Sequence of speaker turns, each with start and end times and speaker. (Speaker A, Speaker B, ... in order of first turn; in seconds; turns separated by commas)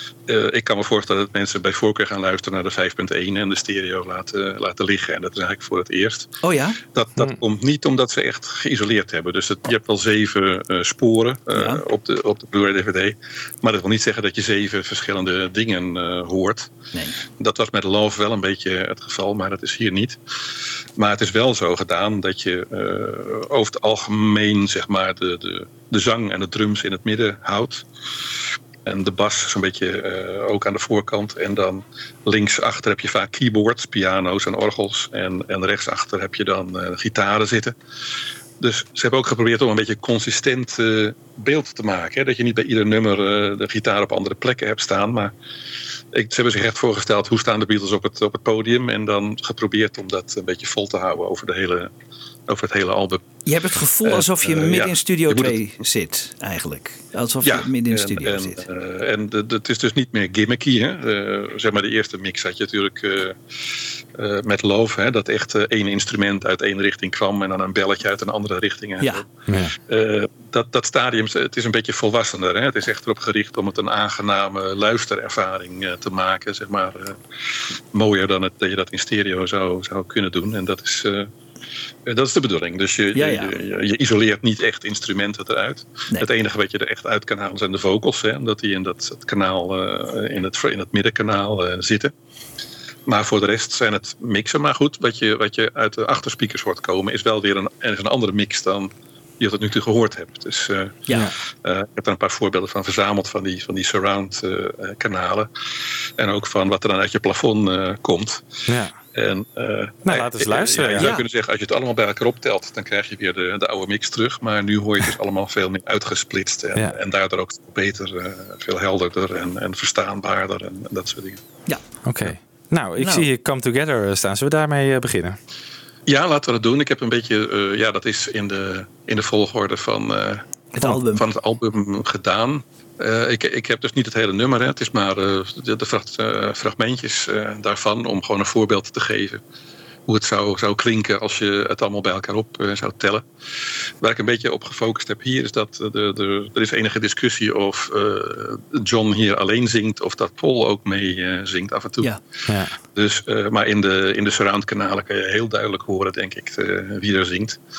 Speaker A: 0.3-16.7, Speaker B: 6.4-6.8, Speaker B: 11.5-11.8, Speaker A: 17.4-20.2, Speaker A: 21.0-27.8, Speaker A: 28.8-37.8, Speaker A: 38.6-45.3, Speaker A: 46.1-51.9, Speaker A: 52.5-53.2, Speaker B: 53.5-58.6, Speaker A: 54.0-55.6, Speaker A: 57.4-63.4, Speaker A: 64.1-69.3, Speaker C: 69.5-69.7, Speaker A: 69.9-77.2, Speaker A: 77.9-81.3, Speaker A: 82.0-92.1, Speaker B: 83.1-83.5, Speaker A: 93.1-101.0, Speaker A: 101.6-105.5, Speaker A: 106.2-108.4, Speaker C: 108.7-108.9, Speaker A: 109.1-121.4, Speaker C: 110.0-111.2, Speaker B: 111.0-111.2, Speaker C: 122.0-125.4, Speaker B: 123.0-123.3, Speaker A: 126.1-130.4, Speaker B: 130.7-131.2, Speaker A: 131.1-139.4, Speaker A: 140.1-143.2, Speaker A: 144.0-152.1, Speaker C: 152.5-152.7, Speaker A: 152.9-157.6